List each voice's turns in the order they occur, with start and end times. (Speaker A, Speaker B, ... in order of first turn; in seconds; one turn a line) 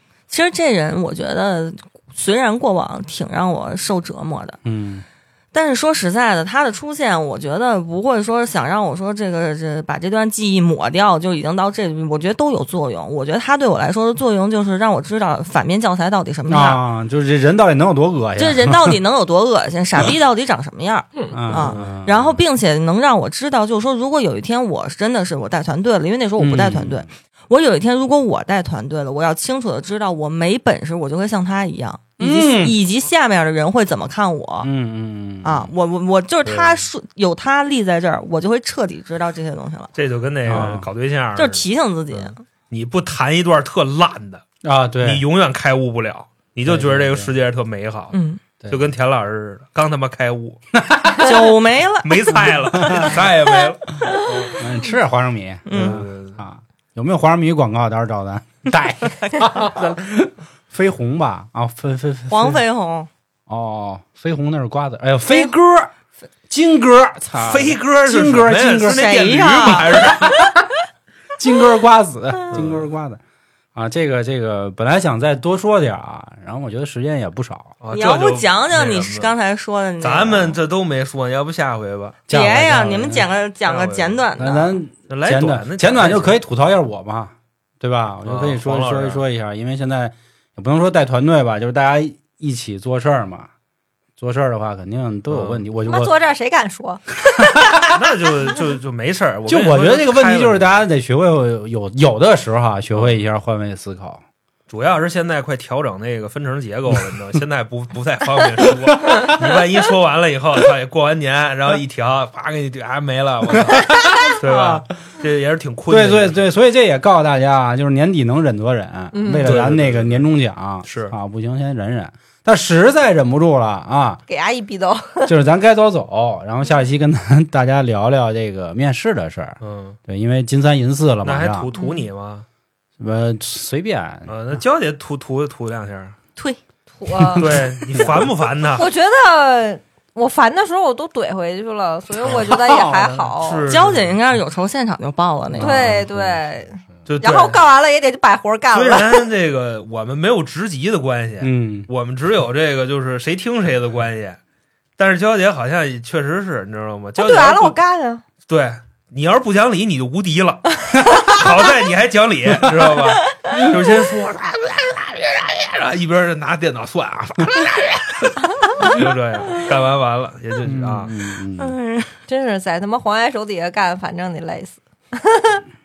Speaker A: 0.3-4.6
Speaker B: 4.6-5.0
Speaker A: 5.5-16.8
Speaker B: 16.5-19.0
Speaker A: 18.4-34.7
Speaker B: 21.3-22.3
Speaker C: 21.6-21.9
Speaker B: 26.4-27.1
Speaker B: 32.2-32.8
Speaker B: 34.6-35.7
Speaker A: 35.4-39.9
Speaker C: 36.5-36.8
Speaker C: 40.0-44.4
Speaker B: 40.5-40.9
Speaker A: 41.4-42.4
Speaker B: 44.6-45.2
Speaker C: 45.0-48.1
Speaker B: 46.7-47.3
Speaker A: 48.1-48.4
Speaker B: 48.6-48.9
Speaker C: 48.7-50.6
Speaker B: 50.7-51.5
Speaker A: 51.2-52.3
Speaker C: 52.0-54.6
Speaker B: 52.8-53.1
Speaker B: 54.5-62.6
Speaker A: 55.7-56.0
Speaker C: 55.7-56.4
Speaker A: 62.3-63.1
Speaker B: 63.5-65.9
Speaker B: 66.5-69.1
Speaker C: 67.4-70.3
Speaker A: 68.8-70.1
Speaker B: 69.7-70.7
Speaker B: 71.4-73.2
Speaker C: 72.5-72.9
Speaker B: 73.8-77.8
Speaker C: 77.8-79.3
Speaker A: 77.9-80.6
Speaker C: 80.0-82.2
Speaker B: 82.3-83.2
Speaker A: 82.3-84.8
Speaker C: 83.7-84.3
Speaker B: 84.4-93.5
Speaker C: 85.1-86.4
Speaker C: 88.2-89.2
Speaker B: 94.2-96.1
Speaker C: 95.3-95.6
Speaker D: 95.9-97.9
Speaker B: 97.4-97.7
Speaker C: 97.9-100.7
Speaker B: 99.5-104.2
Speaker C: 102.9-103.2
Speaker C: 104.7-116.4
Speaker B: 108.9-109.3
Speaker B: 113.6-114.8
Speaker B: 115.9-124.2
Speaker D: 119.1-119.5
Speaker C: 119.3-120.3
Speaker C: 120.8-121.1
Speaker D: 124.3-125.3
Speaker B: 125.3-131.7
Speaker C: 129.6-130.0
Speaker C: 131.2-132.4
Speaker D: 131.8-132.1
Speaker B: 133.0-134.3
Speaker C: 134.3-136.2
Speaker D: 137.0-137.4
Speaker B: 137.1-138.3
Speaker C: 137.4-138.9
Speaker D: 138.8-143.7
Speaker C: 142.2-144.2
Speaker B: 142.5-143.2
Speaker A: 143.7-145.9
Speaker B: 145.5-146.4
Speaker D: 145.6-149.3
Speaker C: 147.1-147.6
Speaker C: 148.7-154.4
Speaker B: 151.4-151.9
Speaker C: 155.0-157.8
Speaker D: 157.2-158.2
Speaker C: 158.5-171.1
Speaker B: 161.0-161.3
Speaker B: 170.6-171.8
Speaker A: 171.6-172.1
Speaker D: 172.3-175.6